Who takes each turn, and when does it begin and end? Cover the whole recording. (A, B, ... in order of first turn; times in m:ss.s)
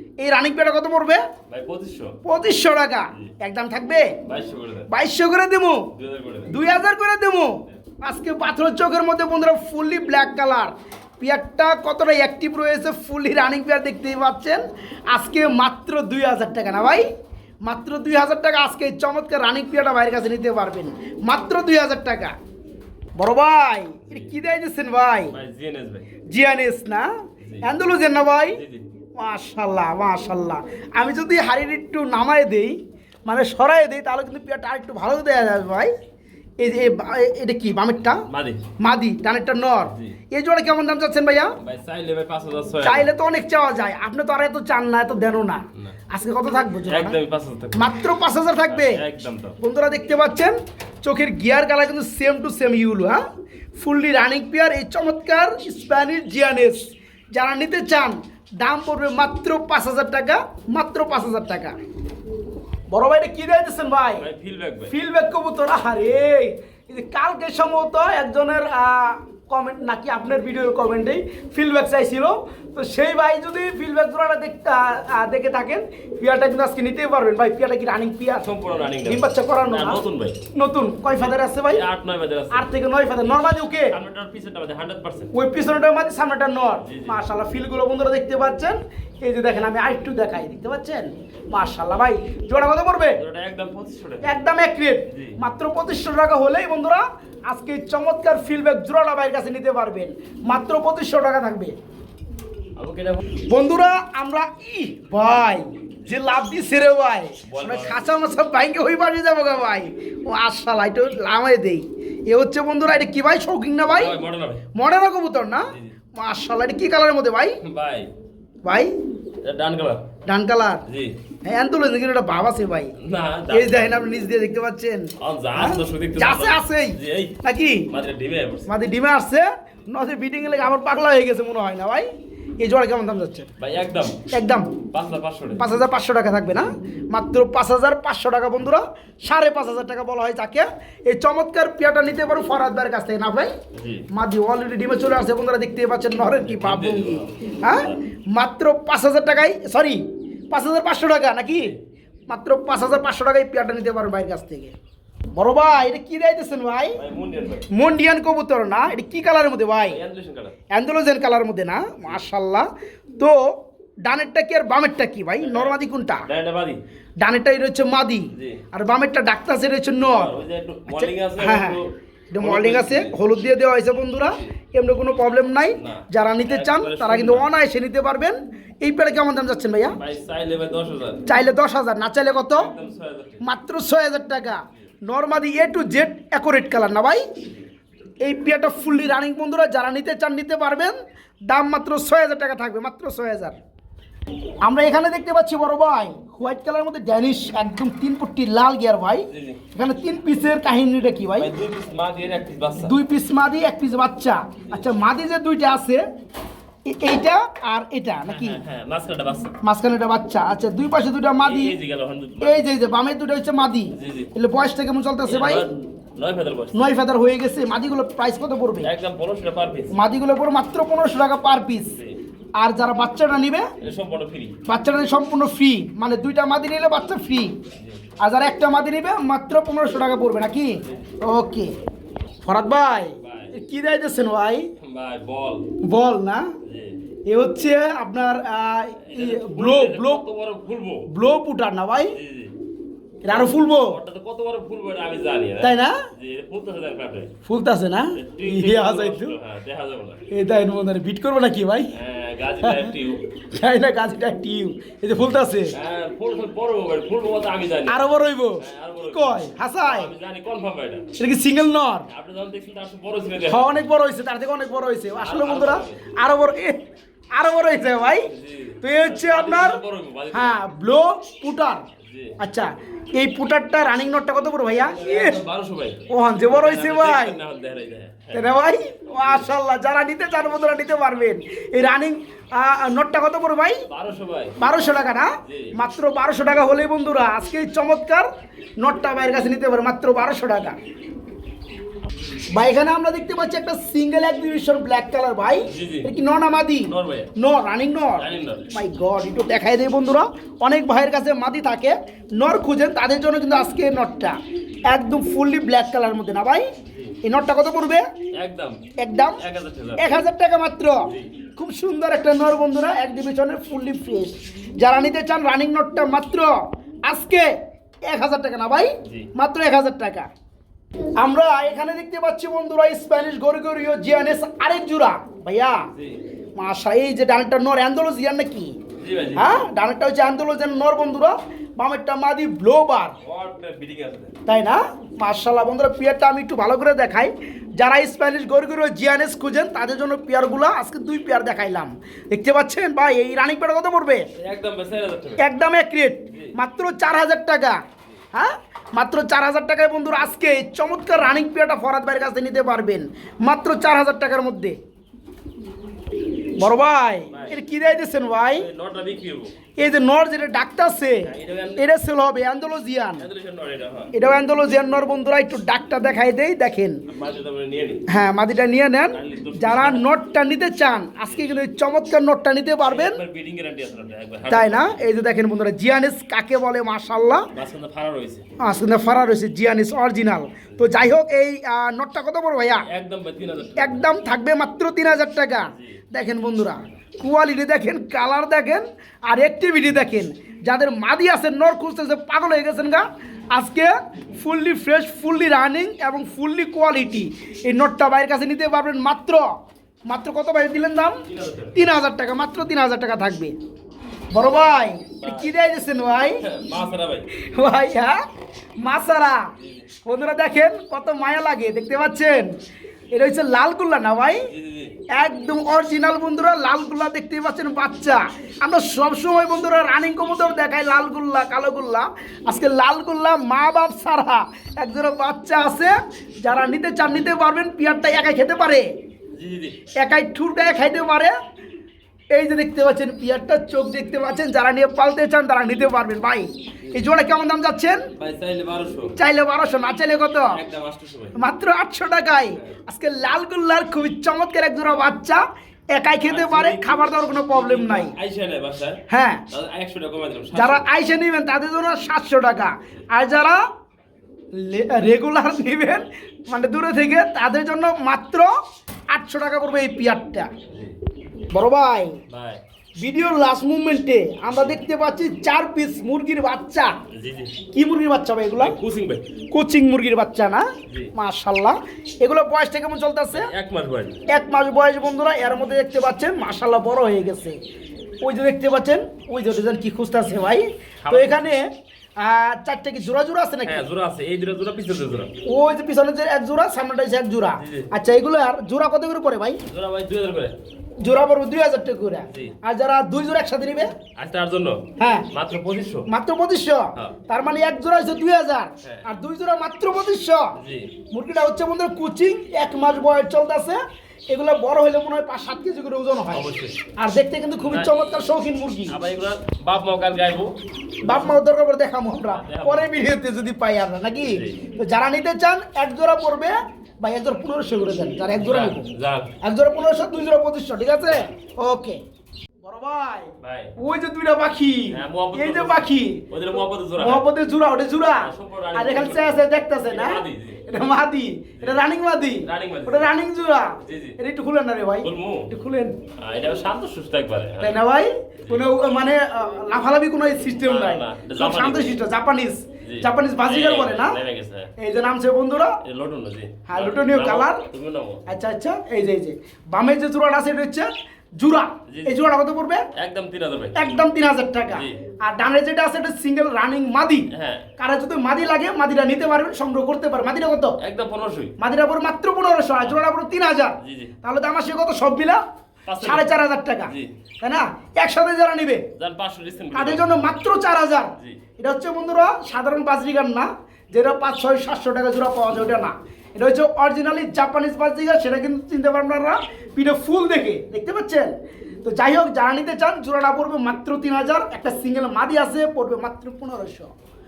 0:00.2-0:01.2 A
0:01.5-0:02.2 B
0:02.2-0:04.2 A
0:04.2-0:04.9 B
0:04.9-0:05.9 A
0:05.9-0:06.5 B
0:06.5-0:17.1 A
0:17.6-0:22.3 A
0:23.2-0:25.4 A
0:25.3-0:26.0 B
0:26.3-0:27.1 A
0:27.4-0:27.7 B
0:27.6-0:28.6 A
0:28.5-0:28.8 B
0:29.2-0:35.9 A
0:36.6-0:38.2 A
0:38.3-0:38.7 B
0:38.8-0:41.6 A
0:39.8-0:40.2 B
0:41.6-0:43.1 B
0:42.8-0:47.2 A
0:46.9-0:47.9 B
0:47.7-0:49.0 A
0:48.6-0:49.6 B
0:49.6-0:53.2 A
0:53.8-1:01.7 A
1:02.9-1:04.2 A
1:04.2-1:04.9 B
1:04.9-1:18.5 A
1:18.4-1:20.4 B
1:19.0-1:20.0 A
1:20.5-1:21.8 A
1:21.2-1:22.7 B
1:22.5-1:24.0 A
1:23.9-1:25.3 B
1:25.3-1:33.2 A
1:26.8-1:27.2 B
1:33.2-1:34.3 B
1:34.2-1:41.7 A
1:35.1-1:35.4 B
1:42.8-1:43.2 B
1:43.5-1:54.2 A
1:47.5-1:48.0 B
1:53.9-1:54.7 B
1:54.7-1:57.6 A
1:57.6-1:58.1 B
1:58.6-1:58.9 A
1:59.4-2:00.0 B
2:00.2-2:00.8 A
2:00.9-2:01.1 B
2:01.4-2:02.9 A
2:03.0-2:04.1 B
2:03.5-2:07.9 A
2:05.2-2:08.7 B
2:08.7-2:12.1 A
2:12.6-2:13.5 A
2:13.6-2:14.2 B
2:14.3-2:14.8 A
2:14.9-2:15.6 B
2:15.6-2:23.5 A
2:23.7-2:24.1 B
2:24.1-2:31.8 A
2:26.4-2:28.0 B
2:32.3-2:34.7 A
2:35.3-2:37.0 A
2:37.0-2:37.7 B
2:37.7-2:40.0 A
2:39.9-2:40.5 B
2:40.7-2:42.7 A
2:43.2-2:43.5 A
2:44.0-2:46.3 A
2:45.4-2:46.8 B
2:47.2-2:50.3 A
2:48.3-2:48.6 B
2:50.0-2:53.2 B
2:50.9-2:51.8 A
2:52.3-3:00.0 A
2:55.7-2:57.5 B
2:59.9-3:01.2 B
3:01.2-3:02.7 A
3:02.5-3:03.4 B
3:03.4-3:07.2 A
3:08.2-3:13.6 A
3:14.6-3:21.5 A
3:19.3-3:19.6 B
3:21.4-3:23.0 B
3:22.8-3:26.0 A
3:26.8-3:28.6 A
3:28.2-3:29.6 B
3:29.6-3:31.7 A
3:31.4-3:32.7 B
3:32.4-3:35.6 A
3:33.9-3:34.3 B
3:35.2-3:36.9 B
3:36.7-3:38.9 A
3:38.8-3:40.0 B
3:39.9-3:42.0 A
3:41.9-3:42.2 B
3:42.6-3:43.7 A
3:43.8-3:44.6 B
3:44.6-3:47.6 A
3:48.2-3:51.7 A
3:50.8-3:51.2 B
3:52.4-3:54.7 A
3:53.2-3:53.5 B
3:54.8-3:55.7 B
3:55.8-3:56.5 A
3:56.6-3:57.0 B
3:57.3-4:00.2 A
3:59.0-4:01.1 B
4:01.1-4:02.2 A
4:02.1-4:02.6 B
4:03.2-4:04.0 A
4:03.3-4:07.3 B
4:05.6-4:06.0 A
4:07.4-4:09.3 A
4:08.1-4:10.2 B
4:10.3-4:11.9 A
4:11.9-4:13.2 B
4:12.6-4:12.9 A
4:13.5-4:15.7 A
4:15.7-4:21.1 B
4:17.9-4:20.1 A
4:21.2-4:22.1 A
4:22.1-4:23.8 B
4:23.5-4:26.8 A
4:25.2-4:26.1 B
4:27.3-4:28.3 A
4:28.2-4:30.6 B
4:28.8-4:29.8 A
4:30.3-4:31.8 A
4:32.0-4:32.4 B
4:32.4-4:35.4 A
4:34.7-4:38.5 B
4:36.1-4:37.4 A
4:38.3-4:43.8 A
4:43.9-4:44.6 B
4:44.6-4:48.3 A
4:45.4-4:45.7 B
4:48.8-4:50.8 A
4:52.5-5:08.0 A
4:55.6-4:56.1 B
4:56.9-4:57.3 B
4:58.2-4:58.7 B
5:08.3-5:08.8 B
5:09.0-5:09.4 A
5:09.4-5:10.2 B
5:10.0-5:16.5 A
5:17.0-5:17.5 A
5:18.1-5:20.3 A
5:21.2-5:25.8 A
5:25.9-5:26.2 B
5:26.6-5:28.8 A
5:29.0-5:29.6 B
5:29.4-5:33.2 A
5:33.2-5:34.3 B
5:34.5-5:44.3 A
5:44.4-5:45.4 B
5:45.4-5:47.8 A
5:48.3-5:54.8 A
5:56.6-5:58.7 A
5:57.3-5:57.6 B
5:58.5-5:59.5 B
5:59.8-6:03.2 A
6:01.2-6:01.9 B
6:03.2-6:04.1 B
6:04.1-6:07.0 A
6:07.1-6:08.0 B
6:08.1-6:13.2 A
6:09.1-6:10.1 B
6:11.2-6:11.5 B
6:12.8-6:15.0 B
6:14.5-6:17.5 A
6:17.5-6:18.4 B
6:18.6-6:22.9 A
6:20.7-6:21.0 B
6:22.9-6:24.1 B
6:23.8-6:39.5 A
6:25.6-6:25.9 B
6:40.1-6:43.5 A
6:41.3-6:41.8 B
6:44.3-6:46.4 A
6:45.2-6:45.5 B
6:46.4-6:47.3 B
6:47.3-6:48.2 A
6:48.8-6:49.5 A
6:49.6-6:49.9 B
6:50.0-6:52.6 A
6:53.1-6:54.5 A
6:54.5-6:55.0 B
6:55.1-7:08.9 A
7:09.3-7:09.8 B
7:10.0-7:11.4 A
7:12.3-7:18.1 A
7:18.2-7:19.1 B
7:19.2-7:20.6 A
7:20.5-7:21.4 B
7:21.3-7:28.1 A
7:22.5-7:22.8 B
7:26.2-7:30.9 B
7:29.1-7:29.4 A
7:30.5-7:33.6 A
7:34.5-7:38.5 A
7:39.1-7:40.5 A
7:40.7-7:41.0 B
7:41.5-7:42.2 A
7:42.3-7:42.6 B
7:43.0-7:46.9 A
7:44.5-7:44.8 B
7:47.1-7:47.6 B
7:47.7-7:48.7 A
7:48.6-7:49.2 B
7:49.5-7:53.5 A
7:50.9-7:51.1 B
7:53.3-7:54.2 B
7:54.3-7:57.6 A
7:58.2-8:03.8 A
8:01.0-8:01.5 B
8:03.6-8:05.3 B
8:05.4-8:09.6 A
8:07.6-8:07.9 B
8:09.6-8:10.6 B
8:11.0-8:13.9 A
8:12.3-8:12.6 B
8:14.2-8:16.1 B
8:15.0-8:15.3 A
8:16.1-8:20.5 A
8:20.6-8:20.9 B
8:21.1-8:23.8 A
8:24.3-8:29.0 A
8:26.3-8:26.8 B
8:27.5-8:28.1 B
8:28.9-8:30.5 B
8:31.0-8:31.4 B
8:31.0-8:38.9 A
8:32.2-8:32.9 B
8:34.2-8:34.6 B
8:38.4-8:39.3 B
8:39.4-8:42.0 A
8:42.6-8:46.2 A
8:43.4-8:43.7 B
8:44.9-8:47.2 B
8:47.0-8:56.0 A
8:48.0-8:50.6 B
8:52.4-8:53.1 B
8:53.8-8:54.2 B
8:55.0-8:55.5 B
8:56.2-8:57.8 B
8:57.6-9:04.2 A
8:58.4-8:58.7 B
9:00.5-9:01.9 B
9:02.8-9:04.7 B
9:04.8-9:05.8 A
9:05.8-9:08.3 B
9:06.6-9:07.6 A
9:08.3-9:12.9 A
9:11.9-9:12.2 B
9:12.9-9:13.9 B
9:13.7-9:20.8 A
9:14.7-9:15.0 B
9:17.3-9:17.7 B
9:20.8-9:21.5 B
9:21.6-9:25.4 A
9:23.8-9:24.1 B
9:25.9-9:26.3 B
9:26.0-9:28.9 A
9:26.8-9:27.1 B
9:29.0-9:30.4 B
9:29.7-9:46.9 A